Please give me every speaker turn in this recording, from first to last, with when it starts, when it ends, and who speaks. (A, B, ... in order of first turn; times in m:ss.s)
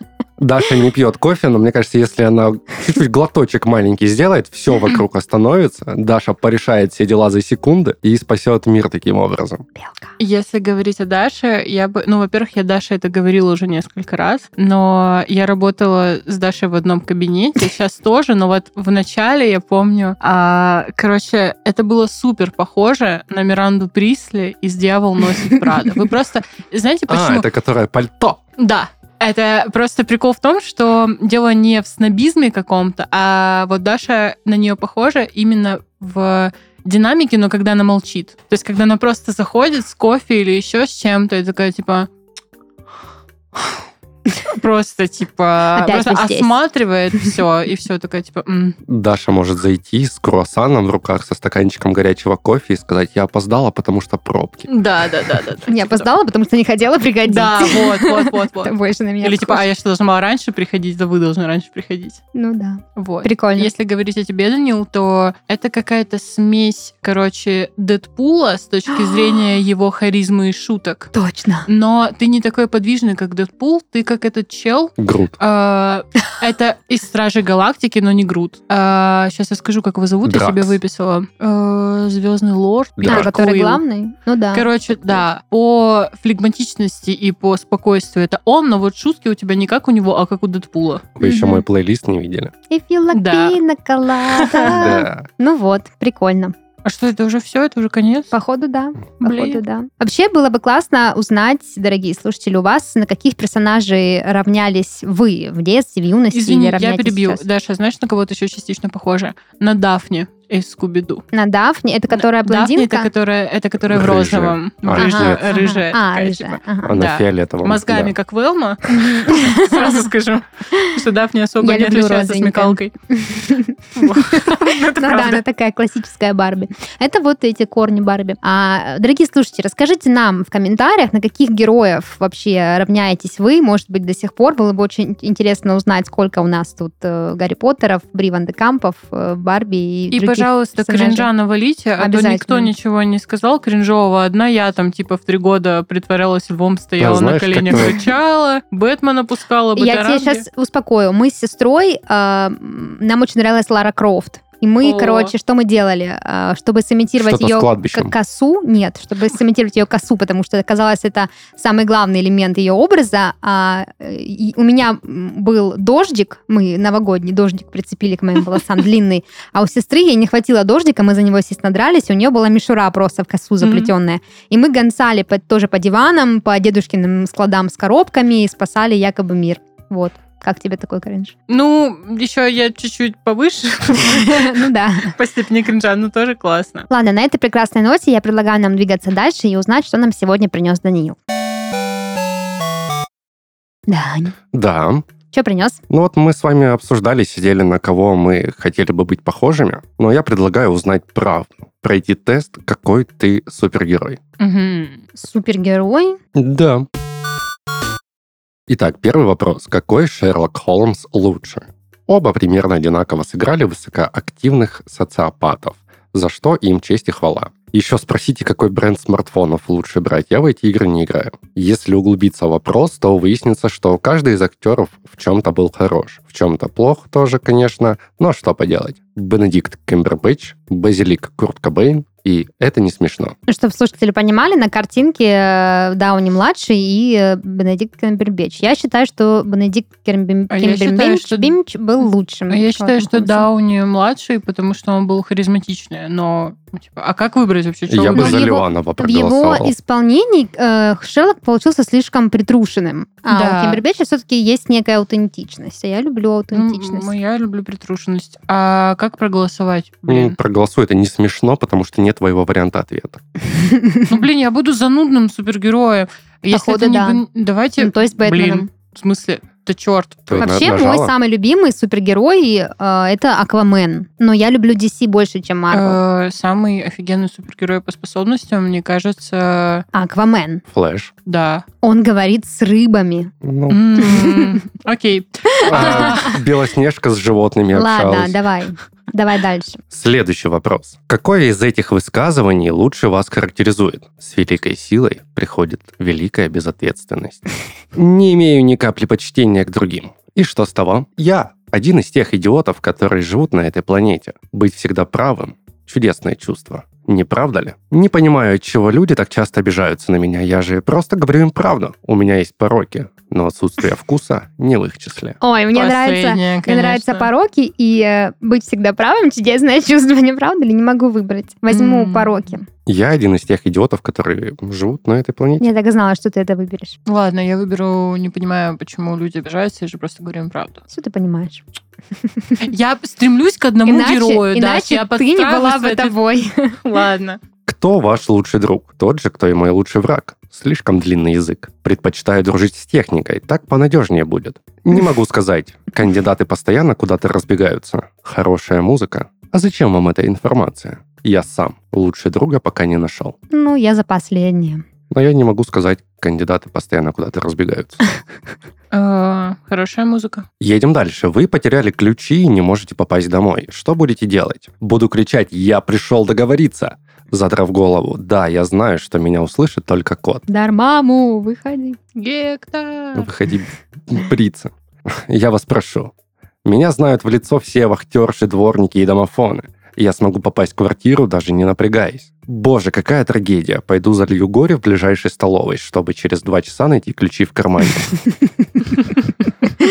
0:00.4-0:09.6 A
0:10.2-0:27.5 B
0:27.1-0:28.4 A
0:28.6-0:42.1 B
0:44.5-0:48.8 B
0:45.7-0:46.6 C
0:48.9-0:54.7 A
0:54.7-0:56.0 B
0:55.7-0:59.6 C
0:57.2-1:02.2 B
1:02.3-1:03.7 C
1:03.0-1:11.1 B
1:11.1-1:11.7 C
1:11.7-1:23.8 B
1:15.0-1:15.4 A
1:20.2-1:20.8 A
1:23.0-1:23.4 A
1:23.0-1:25.2 C
1:24.5-1:31.4 B
1:31.2-1:32.5 A
1:31.2-1:31.6 C
1:32.7-1:36.5 C
1:33.1-1:33.6 B
1:34.3-1:34.9 B
1:34.6-1:35.3 A
1:36.8-1:38.3 B
1:38.3-1:47.4 C
1:39.2-1:39.6 B
1:46.3-1:51.2 B
1:51.3-1:53.1 C
1:52.1-2:02.9 B
1:53.8-1:55.6 A
1:55.0-1:57.0 C
1:56.8-1:58.1 A
1:58.9-2:00.1 C
2:01.6-2:21.3 C
2:03.9-2:05.4 B
2:20.1-2:30.4 B
2:22.0-2:22.7 C
2:27.0-2:28.0 A
2:29.8-3:01.3 C
2:34.8-2:35.3 B
2:37.2-2:38.1 A
2:53.6-2:53.9 B
3:01.5-3:06.9 B
3:04.0-3:05.1 C
3:06.9-3:11.2 C
3:13.9-3:14.3 C
3:14.5-3:15.0 A
3:15.3-3:15.8 C
3:15.9-3:24.2 A
3:24.4-3:25.0 B
3:25.2-3:26.2 C
3:26.3-3:26.8 A
3:28.7-3:53.3 A
3:53.5-4:03.4 C
4:00.5-4:08.4 B
4:07.9-4:09.7 A
4:08.1-4:17.1 C
4:13.3-4:13.8 B
4:16.5-4:20.4 B
4:20.1-4:23.2 A
4:23.6-4:24.1 C
4:24.1-4:30.5 B
4:26.5-4:27.2 C
4:27.8-4:28.7 C
4:30.3-4:31.1 A
4:30.4-4:36.0 C
4:35.7-4:39.8 B
4:39.9-4:40.6 C
4:40.7-4:41.1 A
4:41.2-4:41.6 B
4:41.8-4:43.3 C
4:43.4-4:44.1 A
4:43.7-4:46.4 B
4:44.0-4:44.6 C
4:45.6-4:46.3 C
4:45.7-4:48.4 A
4:47.7-4:49.8 C
4:49.9-4:57.4 A
4:57.9-5:15.4 A
5:15.4-5:22.6 C
5:15.7-5:17.3 B
5:21.7-5:22.5 B
5:22.8-5:25.7 A
5:25.6-5:27.0 C
5:27.0-5:30.8 B
5:30.9-5:31.6 C
5:32.6-5:36.2 B
5:33.8-5:36.8 C
5:36.8-5:37.4 B
5:37.7-5:53.4 A
5:53.5-5:54.8 C
5:55.1-5:58.1 A
5:58.9-6:00.4 B
6:00.6-6:10.4 A
6:10.5-6:12.0 C
6:12.2-6:13.3 B
6:13.1-6:16.1 A
6:16.6-6:28.2 A